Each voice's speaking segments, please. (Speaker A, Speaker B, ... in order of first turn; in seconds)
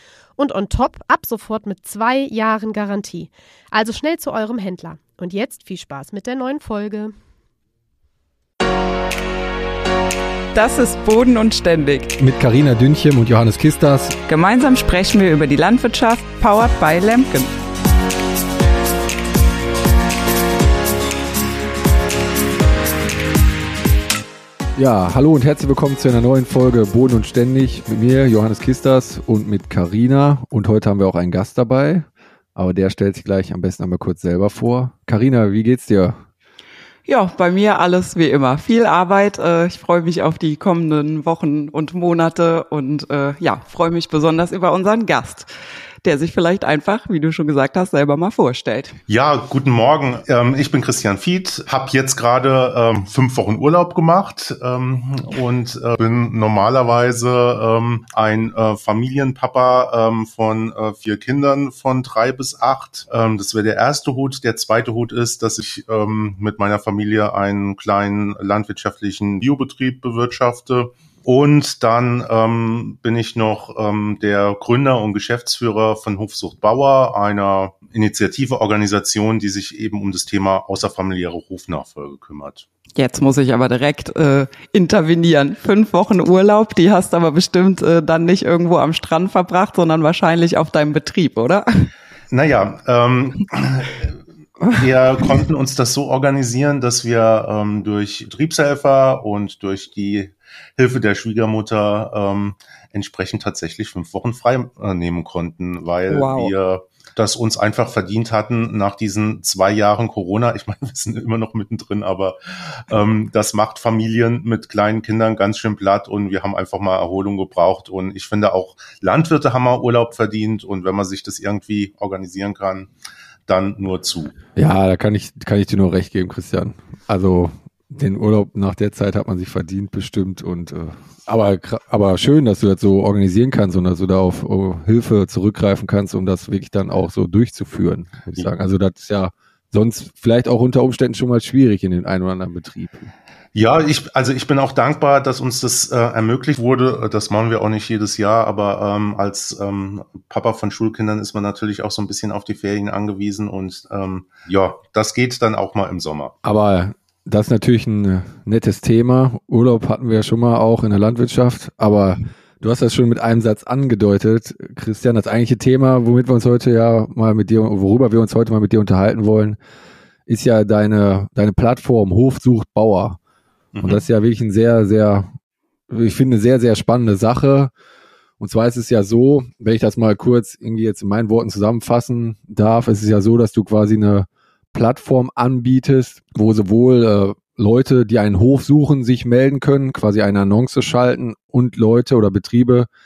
Speaker A: 0.4-7.1
Speaker B: 10.5-12.2, 14.3-17.5, 37.0-45.5, 46.0-49.0, 83.0-91.9, 106.1-106.5
Speaker C: 12.2-14.2, 24.8-36.2, 124.5-143.1, 156.4-169.6, 170.3-173.2, 173.8-175.3, 175.9-177.7, 178.4-192.9
Speaker D: 49.1-82.7, 92.3-94.2, 94.7-112.4, 112.9-122.9, 123.5-124.3, 143.5-156.3, 173.7-174.0